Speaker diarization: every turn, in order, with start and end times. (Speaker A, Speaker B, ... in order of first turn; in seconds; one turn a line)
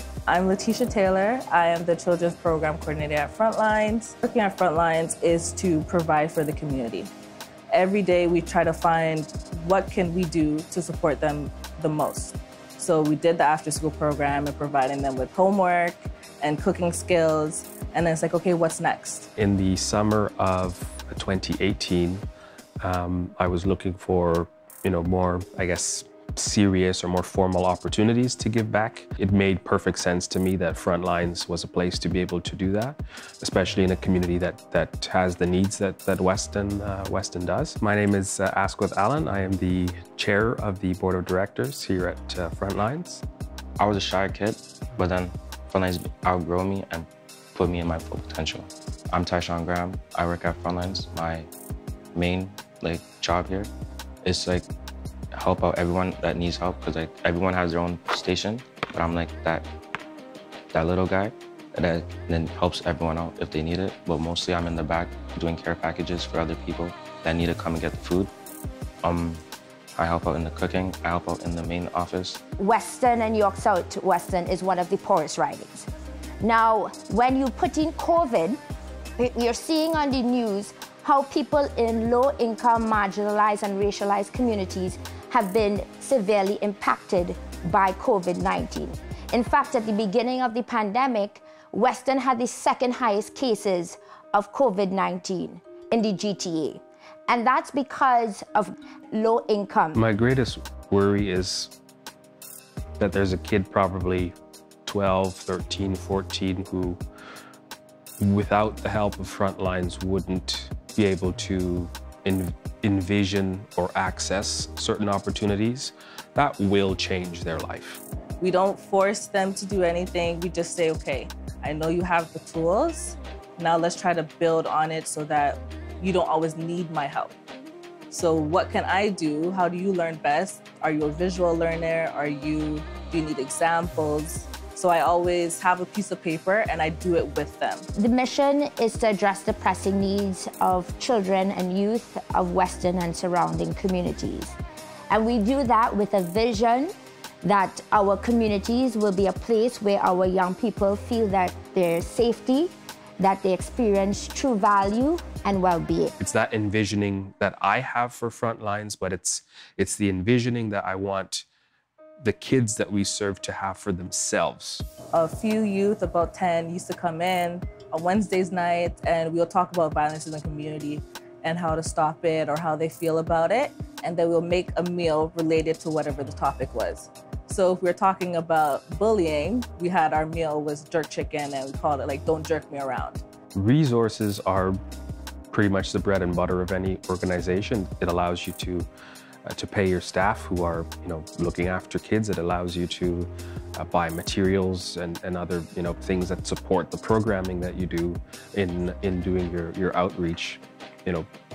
Speaker A: 0.3-7.1
Speaker A: 7.7-19.3
Speaker B: 19.4-22.2
Speaker B: 22.8-43.2
Speaker C: 43.8-51.5
Speaker C: 52.1-53.7
Speaker C: 54.2-54.7
Speaker C: 55.3-59.7
Speaker C: 60.7-68.3
Speaker C: 69.0-69.4
Speaker C: 70.0-72.4
Speaker D: 72.6-75.9
Speaker D: 76.4-78.6
Speaker D: 79.2-100.0
Speaker B: 100.0-101.7
Speaker B: 103.0-107.0
Speaker B: 108.2-118.0
Speaker A: 118.4-127.3
Speaker A: 128.1-137.9
Speaker D: 138.0-144.6
Speaker D: 145.1-156.1
Speaker B: 156.2-161.5
Speaker B: 162.2-164.8
Speaker A: 165.1-183.2
Speaker B: 183.6-184.8
Speaker B: 185.5-188.9
Speaker B: 189.5-201.3